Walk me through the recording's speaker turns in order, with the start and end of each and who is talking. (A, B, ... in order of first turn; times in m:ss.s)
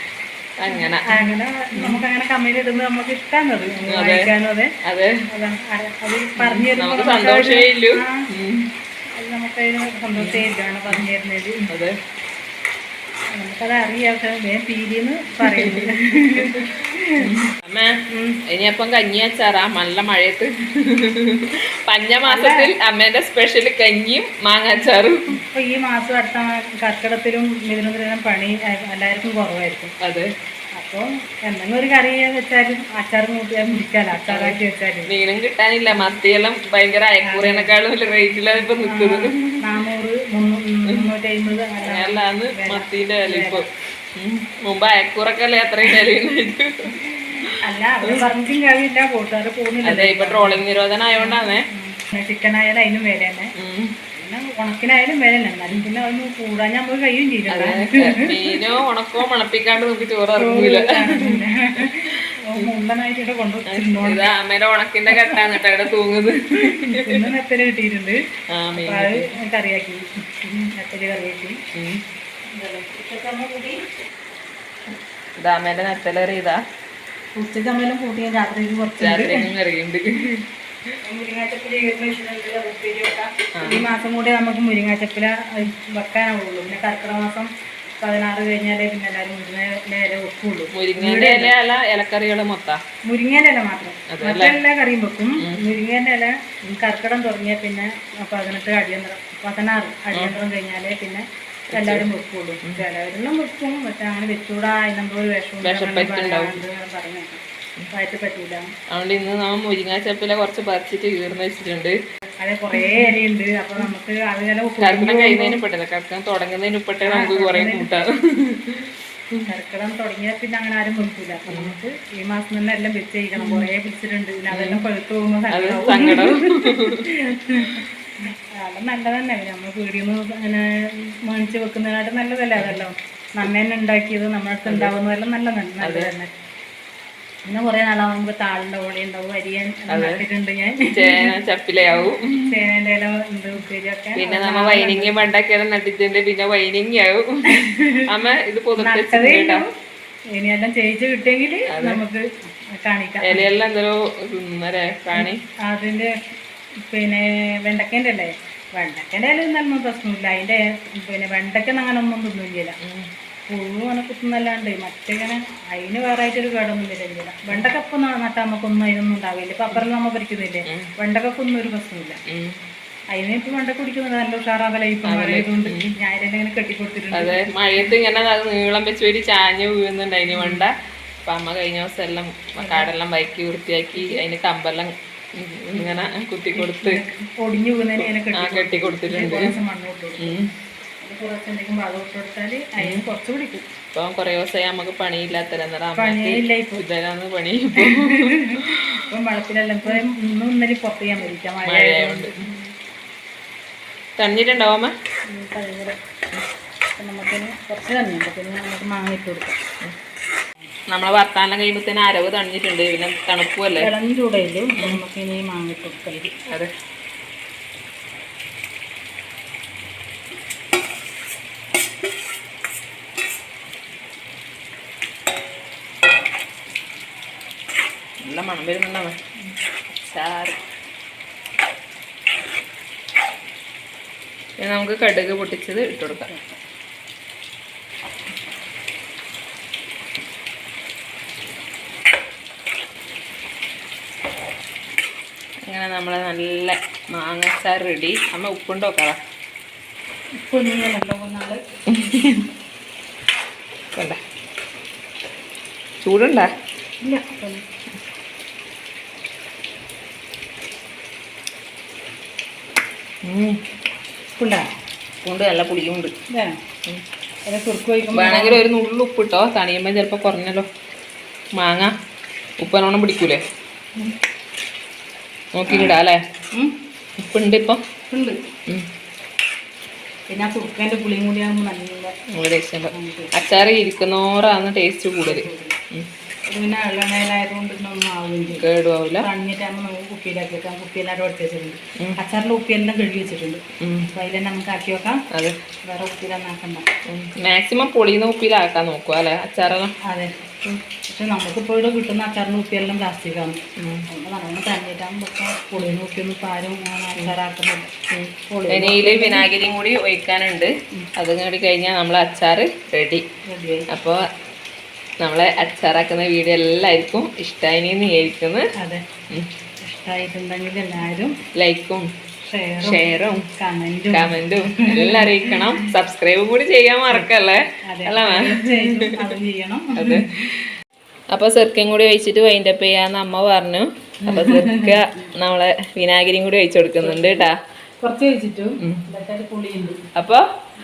0:00.6-0:01.2 A
0:00.7-0:04.7 B
0:03.9-0:04.3 A
0:04.8-0:05.2 A
0:05.3-0:08.2 B
0:06.4-0:08.6 A
0:09.2-0:11.7 B
0:10.2-0:11.0 A
0:13.4-0:17.1 B
0:15.4-0:16.6 A
0:17.2-0:18.0 A
0:18.1-0:18.4 B
0:18.5-0:25.2 A
0:22.3-0:22.7 B
0:25.4-0:29.9 B
0:30.0-0:30.3 A
0:30.8-0:35.1 B
0:34.3-0:34.6 A
0:35.1-0:39.6 A
0:37.2-0:37.7 B
0:38.8-0:43.6 B
0:41.8-0:43.6 A
0:44.2-0:46.9 A
0:47.6-0:50.6 B
0:49.8-0:51.6 A
0:51.2-0:53.5 B
0:53.6-0:53.9 A
0:54.1-0:58.3 B
0:57.5-1:01.4 A
1:00.4-1:04.3 B
1:02.0-1:02.7 A
1:03.7-1:07.2 A
1:05.1-1:05.6 B
1:06.7-1:08.2 B
1:08.5-1:09.3 A
1:08.8-1:11.6 B
1:11.7-1:12.0 A
1:12.5-1:13.8 B
1:15.4-1:16.6 A
1:17.3-1:19.5 B
1:19.0-1:20.4 A
1:21.0-1:31.6 B
1:23.5-1:23.9 A
1:30.7-1:32.8 A
1:33.1-1:41.2 B
1:34.1-1:34.6 A
1:41.7-1:42.0 A
1:41.7-1:48.6 B
1:45.6-1:46.6 A
1:48.9-1:52.0 A
1:52.4-1:55.6 B
1:52.7-1:53.2 A
1:54.8-1:59.4 A
1:57.1-1:57.9 B
1:59.5-2:16.3 B
2:01.5-2:01.8 A
2:03.4-2:03.6 A
2:04.5-2:04.8 A
2:05.5-2:07.0 A
2:14.6-2:14.9 A
2:15.8-2:16.1 A
2:17.4-2:21.3 B
2:19.9-2:20.2 A
2:20.9-2:22.5 A
2:22.0-2:25.3 B
2:24.2-2:29.6 A
2:27.5-2:28.0 B
2:28.8-2:29.7 B
2:30.3-2:33.5 B
2:31.7-2:32.0 A
2:33.2-2:35.4 A
2:35.1-2:36.1 B
2:36.8-2:42.8 B
2:42.8-2:43.1 A
2:43.5-2:52.2 B
2:52.3-2:52.5 A
2:53.1-2:57.9 B
2:55.0-2:55.9 A
2:57.1-3:00.7 A
3:00.3-3:00.6 B
3:01.3-3:07.0 A
3:02.6-3:02.9 B
3:03.9-3:04.2 B
3:06.5-3:10.3 B
3:08.3-3:09.5 A
3:10.2-3:10.5 A
3:11.0-3:13.6 B
3:12.8-3:13.0 A
3:13.9-3:19.0 A
3:16.0-3:16.8 B
3:17.8-3:22.7 B
3:21.6-3:22.3 A
3:24.2-3:24.9 A
3:25.3-3:26.0 B
3:27.0-3:29.6 B
3:30.9-3:33.9 A
3:33.8-3:36.3 B
3:48.2-3:49.2 A
3:49.9-3:50.6 A
3:54.6-3:56.3 A
4:05.7-4:09.2 A
4:10.4-4:11.6 B
4:11.9-4:12.2 A
4:12.2-4:12.4 B
4:16.0-4:16.5 A
4:17.0-4:17.6 B
4:23.2-4:23.6 A
4:24.4-4:24.7 B
4:25.2-4:26.1 A
4:26.3-4:26.6 B
4:27.4-4:28.6 B
4:28.1-4:30.6 A
4:31.6-4:31.9 A
4:32.6-4:33.4 A
4:35.6-4:36.2 A
4:35.7-4:35.9 B
4:37.2-4:37.8 A
4:38.1-4:38.4 B
4:40.3-4:42.1 B
4:42.3-4:46.0 A
4:42.9-4:43.3 B
4:45.2-4:45.8 B
4:46.5-4:48.6 B
4:48.5-4:49.3 A
4:49.2-4:53.6 B
4:53.8-4:54.1 A
4:54.1-4:55.2 B
4:55.8-4:56.8 B
4:57.1-4:59.9 A
5:00.0-5:07.9 B
5:03.8-5:04.0 A
5:08.1-5:13.2 A
5:08.5-5:09.5 B
5:13.5-5:13.9 B
5:13.9-5:14.2 A
5:15.2-5:18.7 A
5:18.8-5:19.0 B
5:19.8-5:21.3 B
5:21.5-5:22.1 A
5:22.4-5:23.0 B
5:22.8-5:23.4 A
5:23.6-5:25.8 B
5:24.1-5:29.2 A
5:27.8-5:30.2 B
5:30.0-5:30.4 A
5:31.3-5:37.5 A
5:34.2-5:35.3 B
5:37.0-5:37.5 B
5:38.0-5:40.0 B
5:40.2-5:40.4 A